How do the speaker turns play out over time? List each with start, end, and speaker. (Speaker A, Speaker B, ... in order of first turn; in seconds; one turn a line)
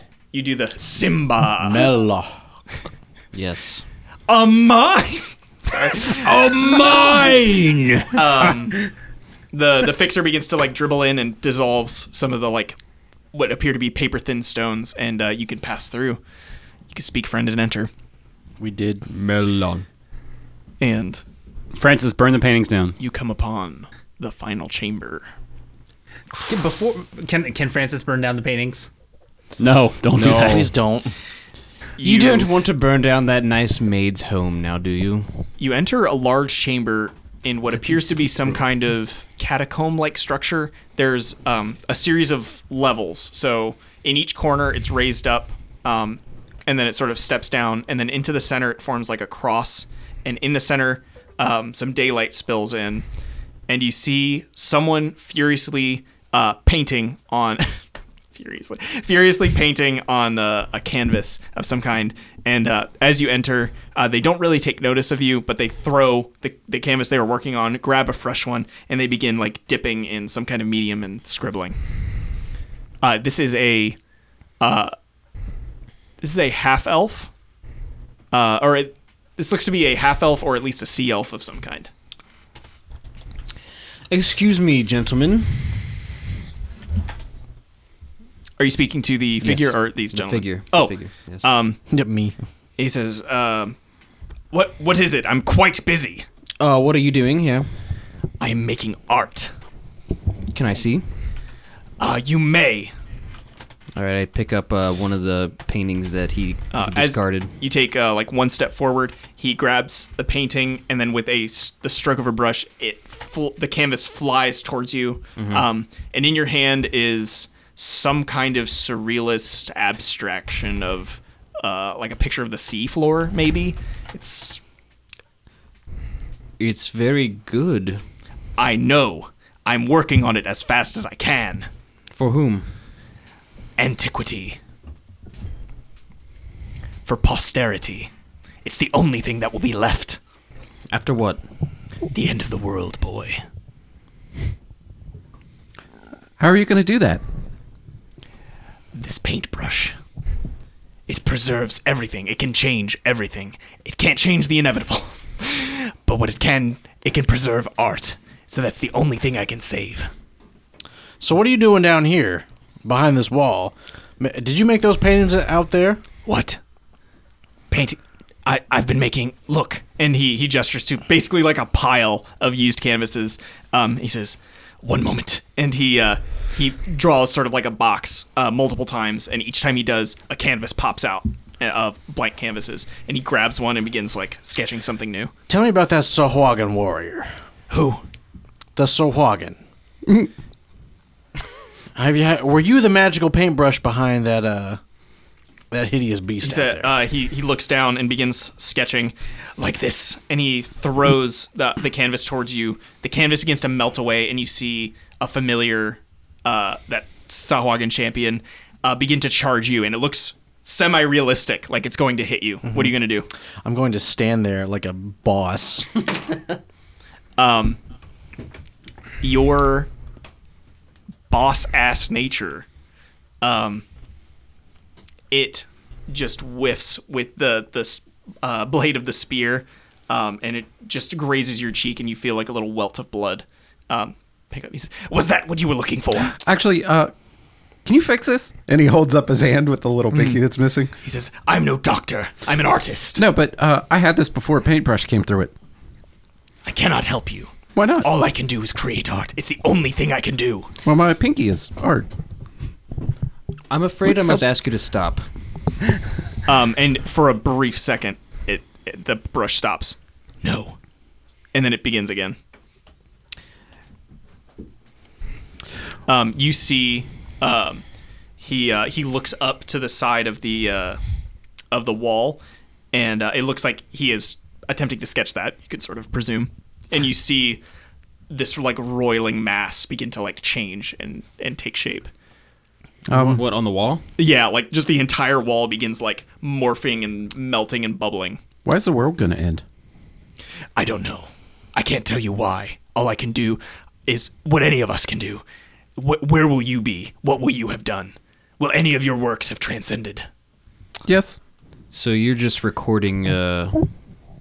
Speaker A: 0.3-1.9
Speaker B: 1.6-2.3
Speaker C: 3.3-3.8
Speaker A: 4.3-6.3
Speaker C: 6.1-8.2
Speaker A: 8.1-8.8
Speaker A: 9.5-12.8
Speaker A: 13.3-16.2
Speaker A: 16.9-17.9
Speaker B: 18.6-19.0
Speaker C: 19.1-19.9
Speaker A: 20.8-21.2
Speaker D: 21.7-22.9
Speaker A: 23.0-25.3
Speaker E: 26.5-28.9
Speaker D: 29.6-30.7
Speaker B: 30.1-31.1
Speaker A: 32.0-32.5
Speaker C: 32.0-35.4
Speaker A: 35.6-53.0
Speaker A: 53.7-57.7
Speaker A: 58.3-71.8
Speaker A: 73.0-74.0
Speaker A: 74.6-74.9
Speaker A: 76.2-77.3
Speaker A: 78.3-81.9
Speaker C: 84.1-85.7
Speaker A: 88.6-91.8
Speaker C: 89.4-91.5
Speaker B: 91.9-92.3
Speaker A: 92.8-93.7
Speaker A: 94.5-96.2
Speaker C: 96.6-97.7
Speaker A: 98.4-99.5
Speaker C: 100.5-101.0
Speaker A: 102.0-102.9
Speaker C: 104.0-107.5
Speaker A: 106.7-124.6
Speaker C: 115.4-115.6
Speaker C: 126.6-128.0
Speaker A: 128.6-131.7
Speaker C: 132.1-132.7
Speaker A: 133.8-134.6
Speaker A: 137.1-138.1
Speaker A: 138.6-140.2
Speaker C: 140.9-141.4
Speaker A: 142.1-143.4
Speaker F: 146.4-147.2
Speaker A: 148.9-149.9
Speaker A: 151.1-160.1
Speaker B: 161.2-166.0
Speaker A: 166.2-166.6
Speaker A: 167.7-185.3
Speaker B: 185.5-187.3
Speaker A: 187.7-188.0
Speaker B: 188.8-189.6
Speaker B: 191.9-194.8
Speaker B: 195.7-196.9
Speaker A: 196.4-213.3
Speaker B: 212.6-212.9
Speaker B: 213.6-216.0
Speaker A: 217.4-217.8
Speaker A: 219.2-219.9
Speaker A: 221.3-222.7
Speaker A: 223.4-223.8
Speaker A: 225.3-236.3
Speaker F: 236.3-237.1
Speaker F: 237.8-240.9
Speaker A: 241.0-243.2
Speaker F: 243.2-245.5
Speaker A: 246.6-250.7
Speaker F: 247.8-248.1
Speaker F: 250.8-252.1
Speaker C: 253.7-255.2
Speaker A: 256.5-260.8
Speaker A: 261.5-262.4
Speaker A: 266.1-267.8
Speaker A: 268.4-271.0
Speaker A: 271.7-272.4
Speaker A: 272.9-277.6
Speaker A: 278.3-282.1
Speaker F: 283.1-283.4
Speaker C: 283.1-284.0
Speaker A: 284.2-288.4
Speaker F: 288.6-289.6
Speaker A: 290.8-295.4
Speaker A: 296.0-300.3
Speaker F: 301.1-301.4
Speaker C: 301.9-303.8